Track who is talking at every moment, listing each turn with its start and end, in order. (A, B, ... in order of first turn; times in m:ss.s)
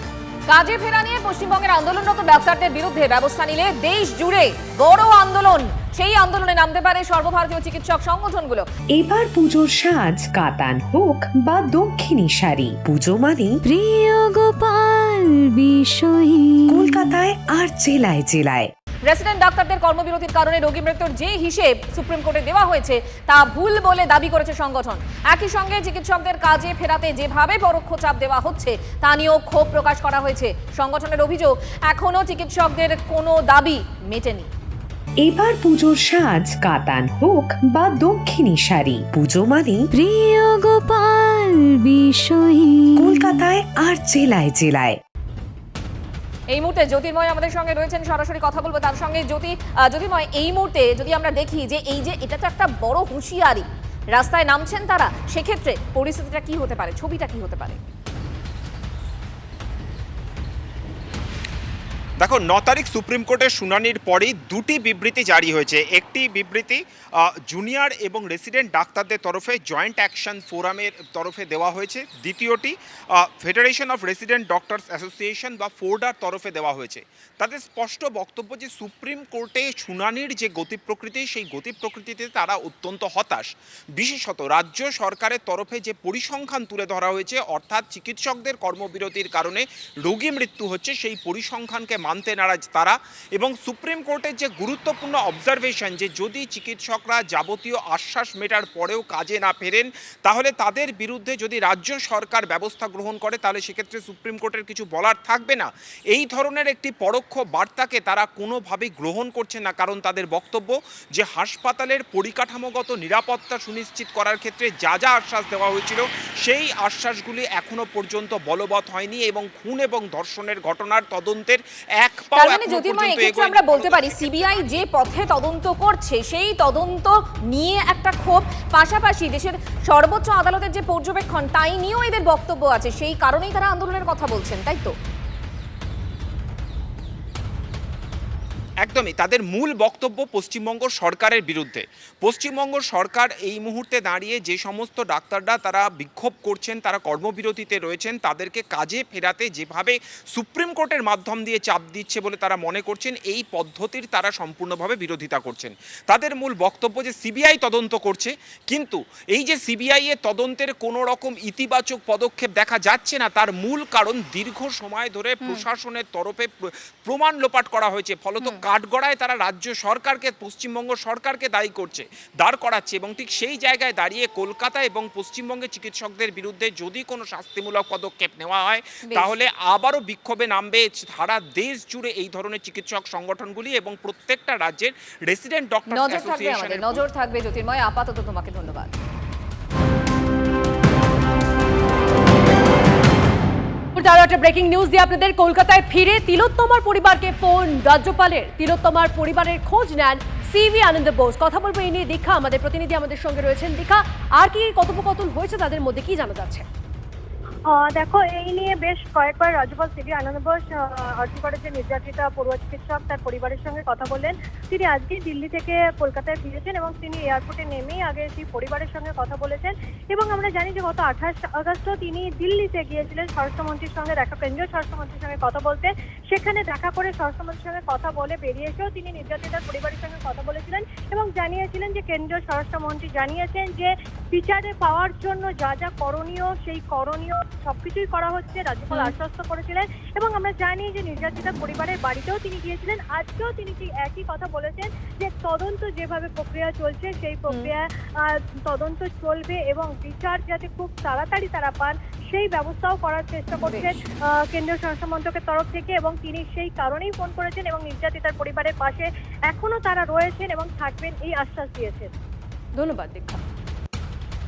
0:00.5-0:08.7 A
0:08.9-0:13.6 B
0:13.7-0:16.9 C
0:16.7-0:18.7 B
0:19.1-0:34.5 A
0:35.2-0:39.9 B
0:40.0-0:43.2 C
0:43.0-0:45.0 B
0:46.5-0:53.6 A
0:54.1-0:57.8 A
1:02.2-2:04.8 D
2:02.3-2:14.9 A
2:18.8-3:07.0 D
2:45.4-2:45.6 A
3:05.9-3:08.9 A
3:14.0-3:26.6 E
3:27.7-4:22.1 F
4:13.6-4:14.0 E
4:22.8-4:23.4 E